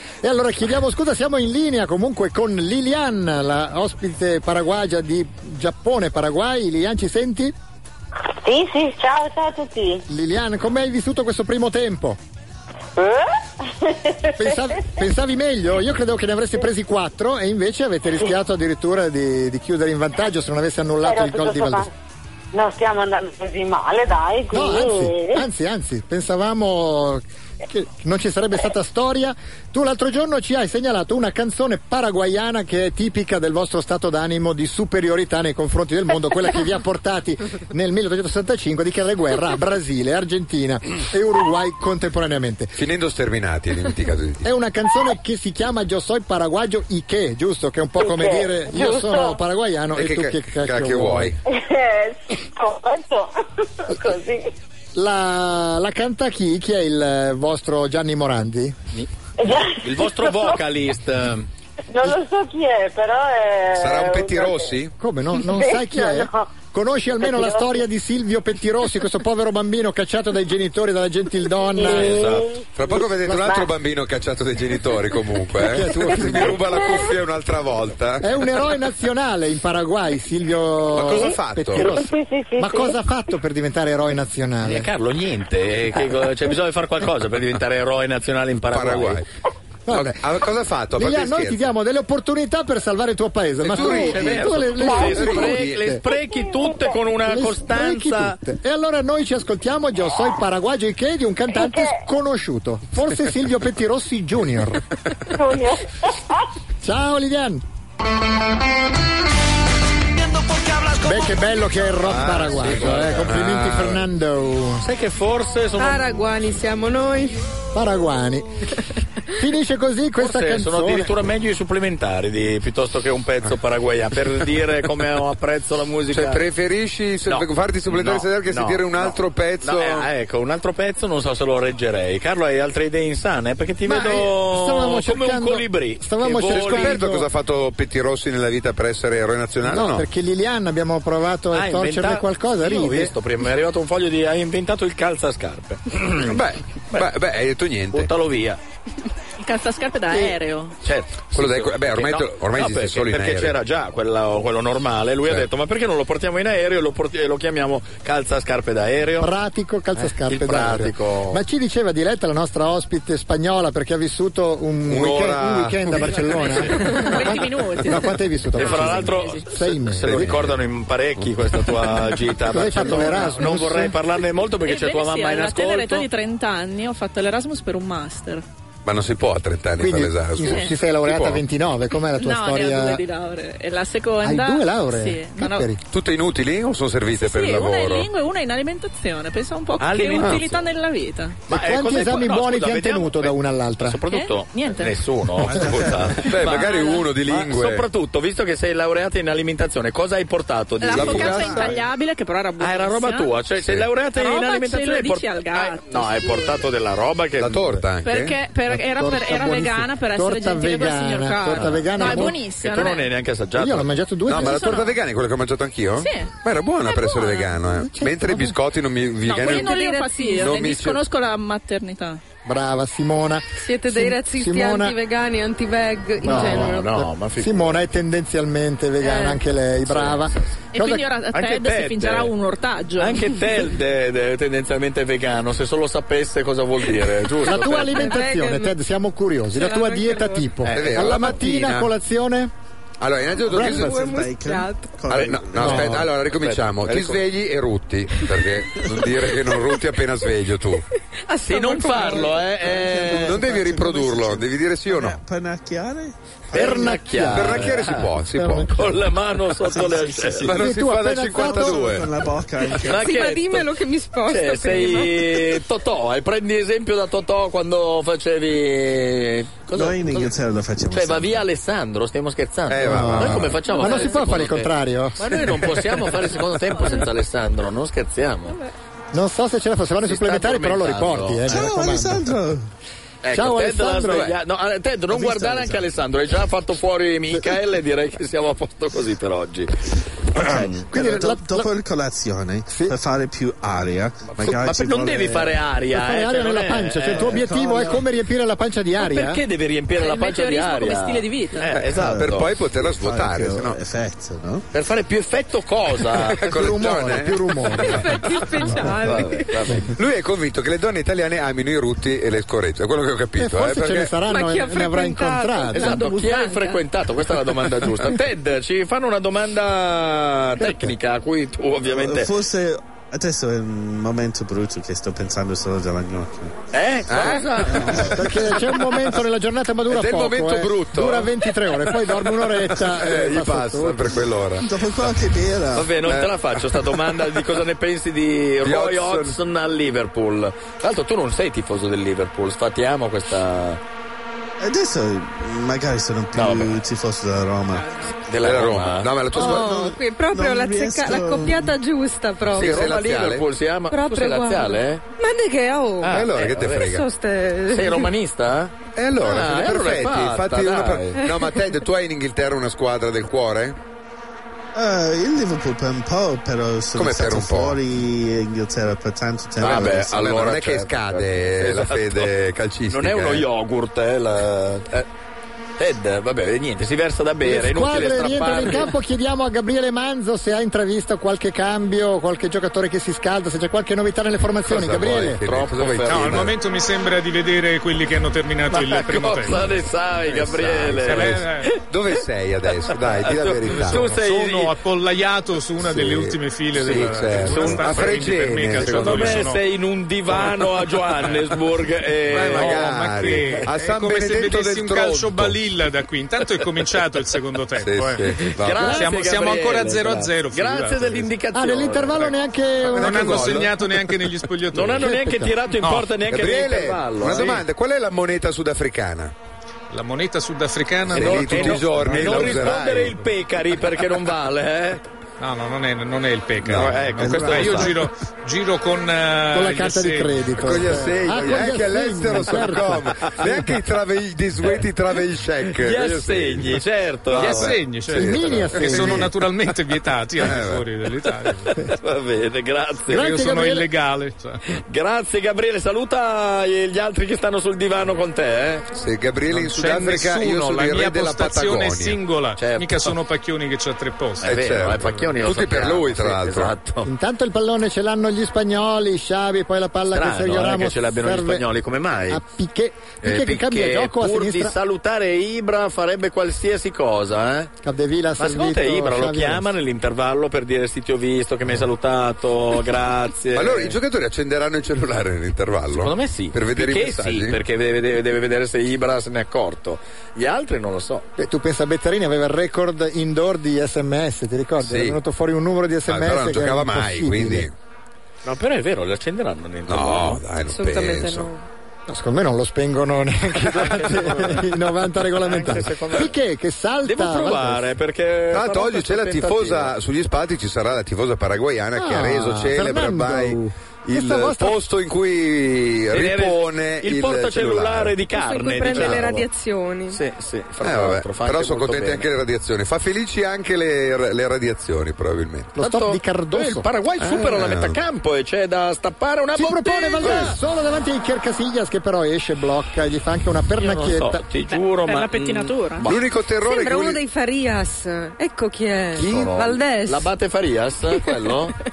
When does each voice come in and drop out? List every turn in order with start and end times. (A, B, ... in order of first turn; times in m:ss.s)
0:00.2-0:07.5 A
0:08.4-0:10.0 B
0:10.1-0:12.2 A
0:13.0-0:13.3 B
0:13.8-0:14.6 B
0:14.4-0:21.9 A
0:21.0-0:21.9 B
0:22.5-0:25.4 B
0:24.5-0:42.8 A
0:42.7-0:44.5 C
0:44.4-0:51.4 A
0:48.0-0:49.4 B
0:49.9-0:51.4 C
0:51.4-0:54.5 B
0:54.9-0:58.8 A
0:59.4-1:00.6 B
0:59.8-1:01.5 D
1:01.9-1:04.7 B
1:03.7-1:04.9 C
1:05.0-1:12.3 A
1:05.4-1:06.5 B
1:07.2-1:07.8 B
1:11.7-1:12.7 B
1:11.8-1:12.4 D
1:12.2-1:18.6 C
1:13.2-1:13.5 A
1:13.3-1:13.7 B
1:15.6-1:16.6 A
1:18.2-1:24.9 A
1:20.9-1:22.0 C
1:21.7-1:23.0 B
1:24.6-1:29.2 D
1:28.7-1:29.3 C
1:29.9-1:30.2 A
1:29.9-1:31.7 C
1:30.9-1:36.0 A
1:33.6-1:35.9 C
1:33.7-1:38.4 D
1:36.1-1:37.0 B
1:37.3-1:44.8 A
1:41.5-1:41.9 B
1:45.2-1:46.4 B
1:46.8-1:47.6 A
1:50.5-1:50.9 B
1:51.0-1:54.8 A
1:52.0-1:54.0 C
1:52.5-1:53.3 D
1:54.8-1:56.0 D
1:55.8-1:57.4 E
1:57.7-1:58.7 A
1:59.4-2:01.1 A
2:00.2-2:06.4 D
2:06.1-2:10.1 C
2:07.2-2:17.0 D
2:13.8-2:17.3 A
2:16.5-2:20.0 C
2:19.6-2:23.1 A
2:21.5-2:27.0 D
2:26.2-2:28.1 C
2:27.9-2:28.6 D
2:29.4-2:30.8 F
2:30.1-2:39.3 D
2:31.3-2:33.6 C
2:39.2-2:50.3 A
2:40.2-2:41.4 D
2:44.8-2:46.6 C
2:46.1-2:49.5 F
2:48.5-2:56.1 D
2:50.0-2:50.6 C
2:52.5-2:53.9 A
2:54.6-2:58.4 F
2:58.8-3:01.4 C
2:59.8-3:03.0 A
3:00.4-3:00.7 F
3:02.1-3:05.7 F
3:04.2-3:05.8 A
3:05.9-3:08.1 C
3:07.2-3:11.4 F
3:09.8-3:10.7 D
3:10.2-3:10.4 C
3:11.5-3:21.7 D
3:11.5-3:14.0 A
3:14.0-3:15.0 F
3:15.5-3:16.2 G
3:16.1-3:17.8 C
3:16.4-3:17.0 F
3:20.8-3:23.3 F
3:20.9-3:21.8 C
3:22.6-3:27.8 D
3:24.1-3:26.7 F
3:27.4-3:28.4 C
3:28.0-3:33.1 F
3:28.6-3:32.4 A
3:31.6-3:33.9 D
3:33.6-3:34.7 A
3:34.3-3:39.8 C
3:34.3-3:35.0 F
3:36.0-3:36.3 F
3:36.8-3:37.8 F
3:38.1-3:38.4 E
3:39.2-3:42.2 F
3:39.4-3:40.7 E
3:40.4-3:41.0 C
3:42.4-3:44.9 A
3:43.6-3:47.0 E
3:46.2-3:47.8 D
3:46.3-3:51.0 A
3:49.0-3:49.4 E
3:49.8-3:50.4 D
3:50.7-3:53.4 F
3:51.3-3:52.3 D
3:53.0-3:58.1 D
3:57.4-4:02.5 A
3:57.5-3:58.8 E
3:59.5-4:00.5 E
4:00.6-4:01.4 D
4:00.7-4:01.9 C
4:03.0-4:04.0 C
4:03.5-4:06.1 G
4:03.5-4:04.9 E
4:05.1-4:10.8 C
4:05.6-4:06.0 A
4:05.6-4:07.2 D
4:08.2-4:08.5 E
4:11.3-4:12.5 E
4:11.4-4:13.4 D
4:12.5-4:16.1 G
4:13.2-4:15.2 C
4:16.5-4:18.1 D
4:16.5-4:17.7 A
4:17.3-4:19.0 C
4:18.3-4:18.8 A
4:18.7-4:20.5 D
4:19.6-4:20.5 G
4:20.4-4:22.1 C
4:20.6-4:21.9 A
4:21.3-4:23.2 G
4:22.7-4:23.7 D
4:22.8-4:25.6 E
4:24.2-4:38.6 D
4:29.7-4:31.4 G
4:32.7-4:33.6 C
4:32.8-4:35.9 A
4:33.6-4:34.3 F
4:36.6-4:37.1 F
4:39.1-4:42.3 A
4:40.1-4:41.6 D
4:41.4-4:42.6 G
4:43.2-4:50.9 D
4:43.3-4:44.3 A
4:45.1-4:45.8 G
4:50.3-4:55.6 G
4:50.9-4:51.7 A
4:52.7-4:52.9 A
4:54.4-4:57.5 D
4:55.9-4:59.4 A
4:57.1-4:58.0 G
4:59.0-5:02.5 D
4:59.9-5:01.7 F
5:01.7-5:03.8 C
5:01.9-5:04.6 G
5:04.7-5:06.4 D
5:06.2-5:08.4 C
5:06.4-5:08.1 A
5:07.7-5:09.8 E
5:08.8-5:09.9 D
5:09.9-5:14.1 C
5:13.4-5:16.0 A
5:14.2-5:16.7 E
5:15.7-5:22.3 D
5:16.1-5:16.5 F
5:20.6-5:20.9 A
5:21.8-5:26.6 G
5:26.7-5:28.4 D
5:27.1-5:28.1 C
5:27.7-5:28.2 G
5:28.1-5:34.1 A
5:29.9-5:35.1 C
5:34.6-5:36.0 G
5:35.7-5:43.8 D
5:36.0-5:37.4 C
5:38.6-5:39.4 C
5:44.6-5:48.0 G
5:46.3-5:46.8 D
5:47.7-5:48.2 F
5:48.3-5:49.1 D
5:48.4-5:49.7 C
5:49.3-5:51.8 G
5:49.3-5:52.8 E
5:52.5-5:53.4 C
5:52.6-5:55.0 D
5:53.9-5:56.3 E
5:56.0-5:57.0 D
5:56.1-5:57.0 C
5:56.8-5:58.1 E
5:57.7-6:01.2 D
5:58.9-6:03.8 C
6:04.7-6:10.1 G
6:06.9-6:07.8 C
6:09.6-6:12.3 D
6:09.6-6:13.5 C
6:12.9-6:15.1 D
6:15.8-6:18.9 D
6:17.4-6:25.4 A
6:24.6-6:26.6 C
6:25.3-6:26.5 D
6:26.1-6:29.6 H
6:28.7-6:31.8 D
6:30.2-6:34.1 C
6:31.0-6:31.7 H
6:32.8-6:34.8 D
6:33.6-6:39.6 H
6:35.8-6:39.5 C
6:36.8-6:38.2 D
6:38.7-6:43.6 D
6:40.3-6:41.5 H
6:42.3-6:51.3 H
6:42.3-6:45.6 C
6:47.8-6:48.8 C
6:48.4-6:52.3 D
6:48.8-6:49.1 A
6:51.5-6:53.6 A
6:52.8-6:54.1 C
6:53.0-6:55.2 H
6:54.7-6:57.6 D
6:55.0-6:55.5 A
6:55.8-6:56.1 H
6:56.2-6:59.3 C
6:57.2-6:57.6 H
6:59.9-7:03.2 H
7:01.1-7:03.2 C
7:01.1-7:05.0 D
7:05.4-7:10.9 H
7:06.6-7:07.9 C
7:06.7-7:07.9 D
7:07.2-7:08.0 G
7:09.5-7:13.1 A
7:10.6-7:19.3 C
7:13.2-7:13.5 D
7:15.7-7:17.8 D
7:17.3-7:21.9 H
7:18.1-7:19.3 A
7:20.4-7:20.9 C
7:21.8-7:23.3 D
7:23.1-7:24.6 H
7:23.1-7:23.9 A
7:24.7-7:28.8 D
7:28.9-7:32.2 C
7:29.5-7:35.2 H
7:32.6-7:33.2 D
7:34.4-7:37.1 D
7:34.4-7:36.7 C
7:37.0-7:41.6 A
7:40.1-7:42.4 D
7:42.3-7:44.8 A
7:43.2-7:47.7 D
7:47.8-7:49.7 A
7:48.4-7:54.0 D
7:53.5-7:57.6 C
7:55.9-8:01.3 D
8:01.4-8:07.7 A
8:04.8-8:05.2 C
8:06.1-8:07.7 C
8:08.4-8:10.4 D
8:09.9-8:11.5 C
8:10.7-8:11.6 E
8:12.1-8:17.8 A
8:13.7-8:16.3 D
8:17.0-8:19.9 D
8:18.5-8:28.2 C
8:22.0-8:24.8 A
8:26.1-8:29.4 D
8:28.3-8:30.2 E
8:28.9-8:29.3 C
8:30.1-8:32.2 D
8:30.8-8:35.7 C
8:35.7-8:36.8 A
8:35.8-8:40.6 D
8:37.2-8:38.0 C
8:39.5-8:44.4 A
8:40.2-8:40.6 C
8:43.8-8:46.2 D
8:44.7-8:46.1 F
8:46.0-8:47.2 C
8:46.6-8:50.3 E
8:49.2-8:51.8 D
8:51.2-8:51.5 E